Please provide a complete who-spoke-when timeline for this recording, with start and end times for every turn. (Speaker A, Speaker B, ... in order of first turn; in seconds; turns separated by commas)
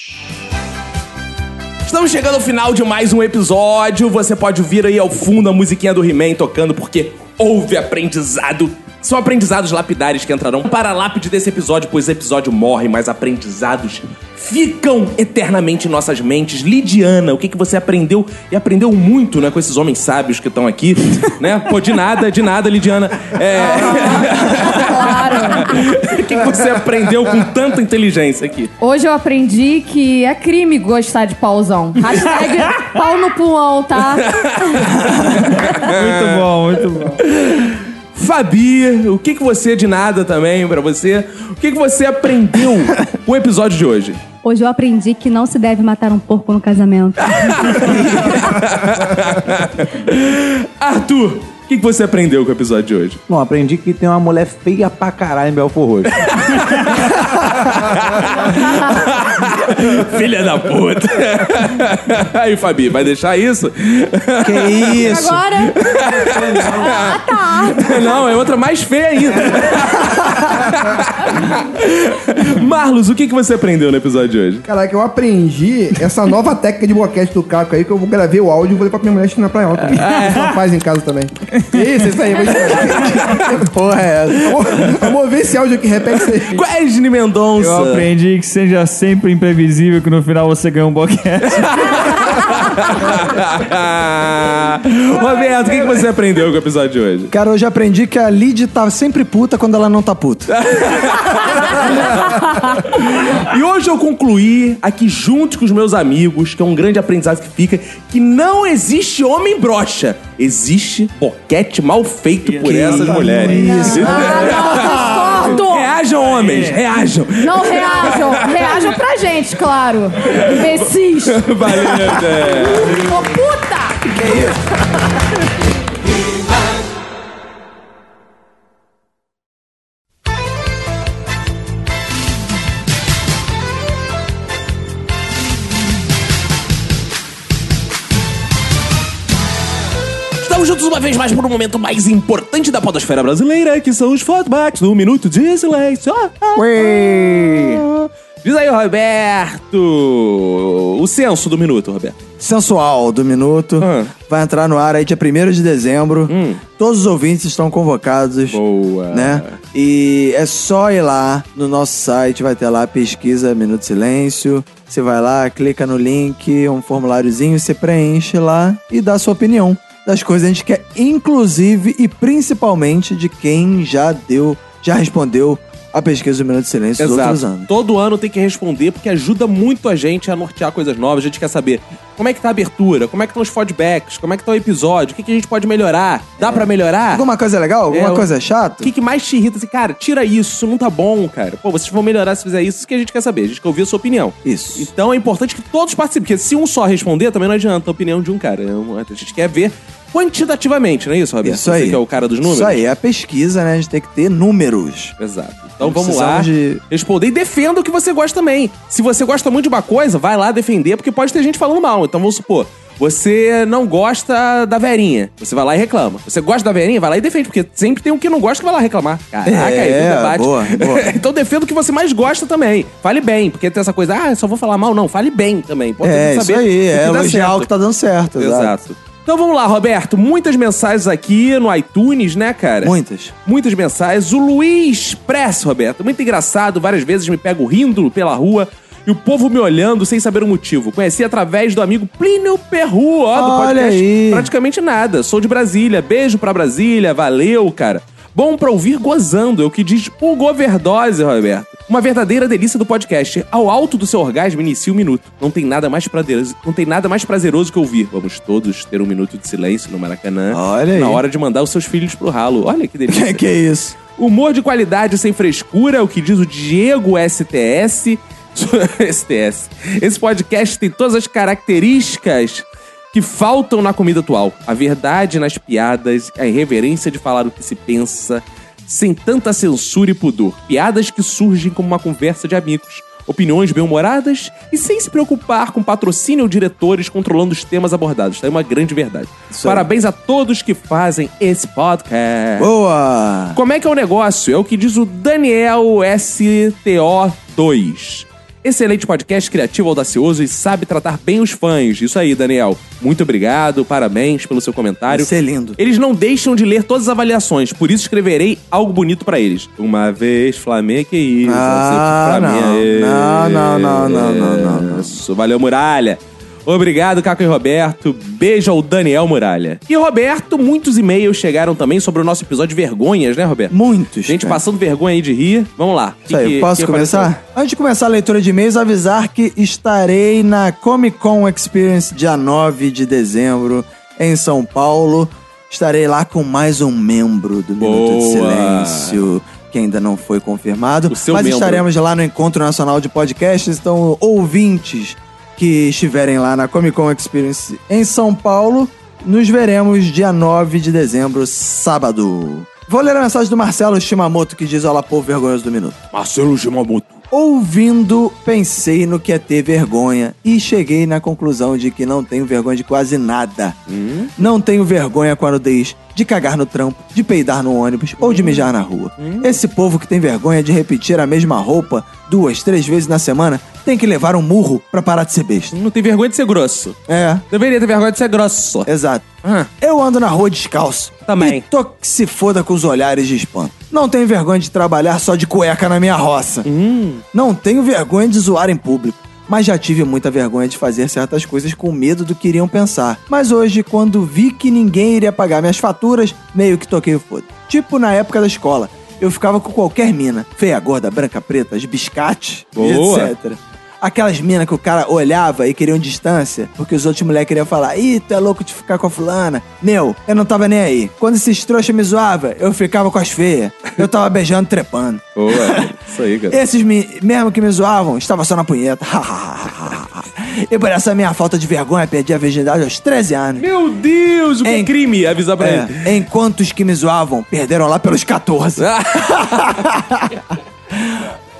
Speaker A: 1.8-28.7, Speaker B: 23.5-25.8, Speaker B: 28.8-34.5, Speaker C: 32.1-32.8, Speaker A: 34.1-36.5, Speaker C: 35.3-37.2, Speaker A: 37.2-44.2, Speaker D: 44.4-48.0, Speaker A: 47.3-53.2, Speaker E: 53.3-56.3, Speaker A: 56.2-74.6, Speaker F: 64.4-65.5, Speaker D: 65.0-65.8, Speaker E: 66.1-67.0, Speaker D: 66.7-68.3, Speaker G: 74.6-86.6, Speaker A: 79.9-80.5, Speaker A: 83.2-83.4, Speaker F: 83.7-84.5, Speaker A: 84.5-85.1, Speaker A: 86.5-88.1, Speaker C: 87.6-92.4, Speaker A: 91.5-97.3, Speaker F: 97.3-100.5, Speaker A: 100.5-118.9, Speaker C: 112.4-113.9, Speaker F: 112.7-115.6, Speaker B: 113.5-115.9, Speaker C: 116.2-116.8, Speaker B: 117.4-121.7, Speaker A: 120.2-123.0, Speaker B: 122.3-124.0, Speaker F: 124.2-124.6, Speaker A: 140.4-152.2, Speaker F: 146.5-147.8, Speaker F: 152.4-158.6, Speaker A: 153.8-154.1, Speaker A: 156.3-156.6, Speaker A: 158.5-159.6, Speaker F: 159.1-177.7, Speaker A: 177.0-187.2, Speaker F: 186.4-188.9, Speaker A: 187.9-188.3, Speaker A: 188.8-202.8, Speaker F: 194.4-194.9, Speaker F: 201.4-205.1, Speaker A: 205.2-227.7, Speaker F: 205.8-206.8, Speaker F: 219.4-221.2, Speaker F: 226.0-228.8, Speaker A: 228.3-263.4, Speaker F: 232.8-233.3, Speaker F: 243.3-244.5, Speaker F: 260.5-261.2, Speaker F: 263.1-264.0, Speaker A: 264.1-292.7, Speaker F: 289.5-289.9, Speaker F: 292.6-293.6, Speaker A: 293.5-323.7, Speaker F: 305.1-305.8, Speaker F: 311.4-315.2, Speaker F: 323.7-324.6, Speaker A: 324.2-327.3, Speaker F: 326.3-356.0, Speaker A: 337.8-339.2, Speaker A: 341.1-341.8, Speaker A: 356.1-357.2, Speaker F: 357.3-363.8, Speaker A: 363.9-364.5, Speaker F: 364.4-375.7, Speaker A: 368.2-369.6, Speaker A: 375.7-377.0, Speaker F: 377.1-377.4, Speaker A: 377.5-378.9, Speaker F: 378.9-386.6, Speaker A: 379.4-379.7, Speaker A: 381.3-381.6, Speaker A: 386.6-387.2, Speaker F: 387.3-415.9, Speaker A: 402.7-403.3, Speaker A: 415.4-416.6, Speaker F: 416.5-423.6, Speaker A: 423.6-426.2, Speaker F: 424.6-424.9, Speaker F: 425.6-430.3, Speaker A: 428.8-429.8